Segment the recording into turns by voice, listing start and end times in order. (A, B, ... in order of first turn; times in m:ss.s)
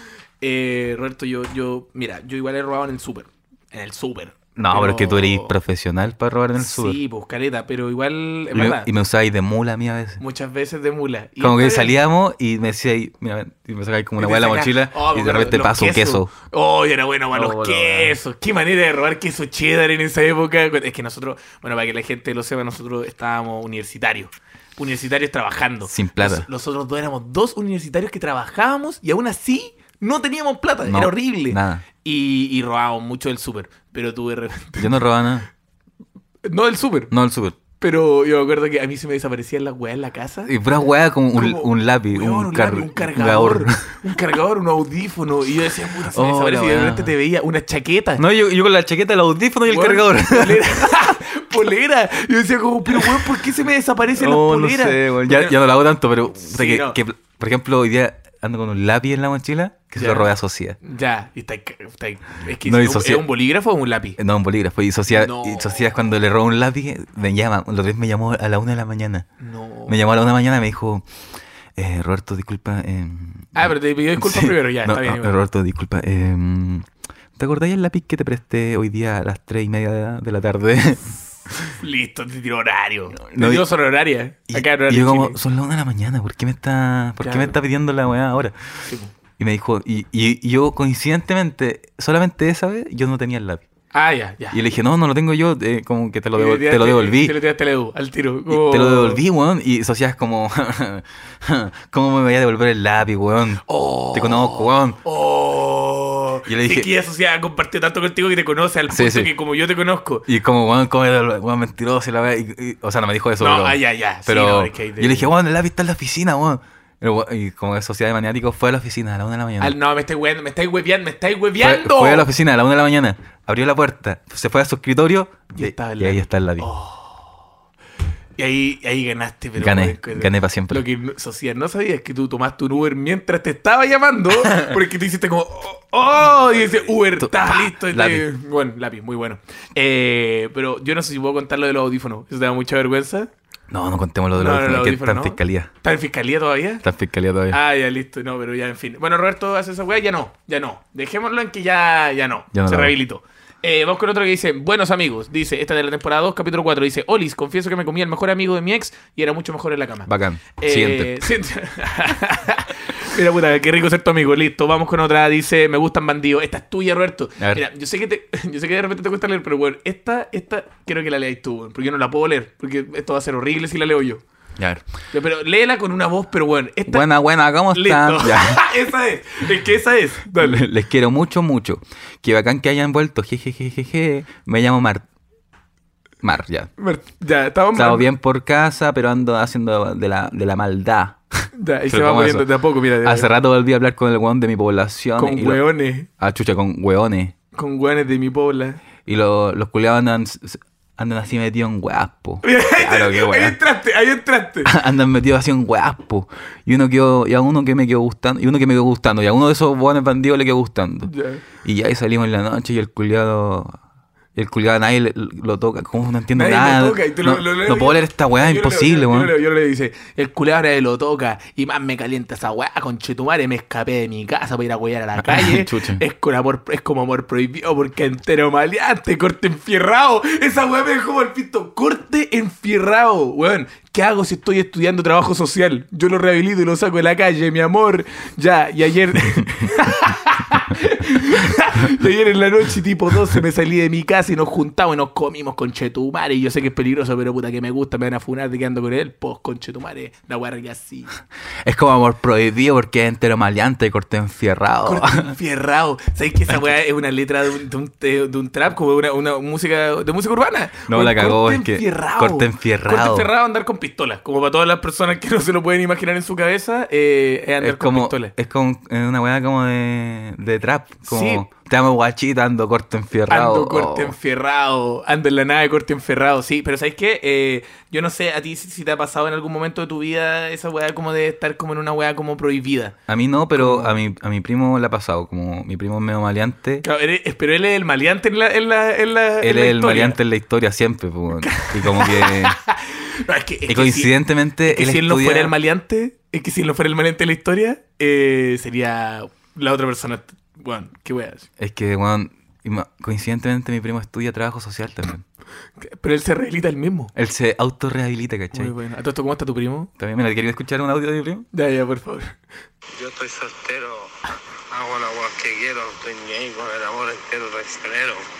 0:00.4-0:05.5 A
0:04.6-0:07.0 B
0:06.6-0:08.9 A
0:08.5-0:10.2 B
0:10.2-0:11.9 A
0:11.4-0:16.3 B
0:14.2-0:35.0 A
0:17.3-0:18.2 B
0:25.9-0:26.5 B
0:30.8-0:31.8 B
0:34.8-0:35.5 B
0:36.4-0:37.1 A
0:37.1-0:37.6 B
0:37.8-0:40.5 A
0:40.4-0:43.9 B
0:41.3-0:48.2 A
0:46.1-0:47.1 B
0:48.2-0:51.2 B
0:49.7-0:55.6 A
0:52.9-0:53.3 B
0:54.2-1:00.8 B
0:56.4-0:57.0 A
1:00.0-1:00.3 A
1:00.8-1:04.2 A
1:02.6-1:03.2 B
1:04.2-1:09.3 B
1:05.1-1:05.9 A
1:09.4-1:10.0 A
1:09.9-1:11.0 B
1:11.8-1:21.7 B
1:13.5-1:15.4 A
1:21.8-1:25.4 A
1:23.2-1:23.7 B
1:24.5-1:33.6 B
1:27.2-1:27.6 A
1:28.8-1:29.1 A
1:33.9-1:34.6 A
1:34.5-1:37.4 B
1:36.3-1:39.2 A
1:38.5-1:45.0 B
1:43.6-1:50.2 A
1:46.5-1:46.9 B
1:48.9-1:49.3 B
1:50.3-1:59.7 B
1:53.4-1:55.3 A
1:59.6-2:02.3 A
2:01.6-2:06.7 B
2:05.5-2:07.4 A
2:08.4-2:23.3 A
2:09.6-2:10.8 B
2:17.2-2:18.2 B
2:23.7-2:25.7 B
2:24.3-2:26.8 A
2:26.8-2:27.6 B
2:27.5-2:54.2 A
2:32.5-2:32.9 B
2:40.0-2:41.3 B
2:47.4-2:47.6 B
2:54.6-2:54.8 B
2:55.1-2:57.1 A
2:56.9-2:58.7 B
2:57.7-3:00.6 A
3:00.4-3:05.0 B
3:06.2-3:06.7 B
3:06.8-3:08.1 A
3:07.7-3:12.5 B
3:11.6-3:13.3 A
3:13.0-3:17.3 B
3:15.2-3:16.1 A
3:17.5-3:18.8 A
3:19.0-3:23.6 B
3:22.4-3:24.7 A
3:24.6-3:33.8 B
3:31.0-3:31.4 A
3:34.3-3:39.3 B
3:36.3-4:11.1 A
3:45.2-3:46.0 B
4:11.6-4:15.3 B
4:14.8-4:28.3 A
4:20.9-4:23.3 B
4:27.6-4:34.2 B
4:31.0-4:31.5 A
4:33.3-4:43.0 A
4:43.1-4:46.8 B
4:43.5-4:44.0 A
4:46.8-4:50.2 A
4:49.4-4:52.6 B
4:51.4-5:01.5 A
4:53.7-4:55.5 B
5:01.6-5:05.2 B
5:05.8-5:07.1 A
5:07.1-5:08.7 B
5:08.5-5:09.9 A
5:10.0-5:11.5 B
5:11.5-5:12.3 A
5:13.0-5:14.1 C
5:14.7-5:18.2 C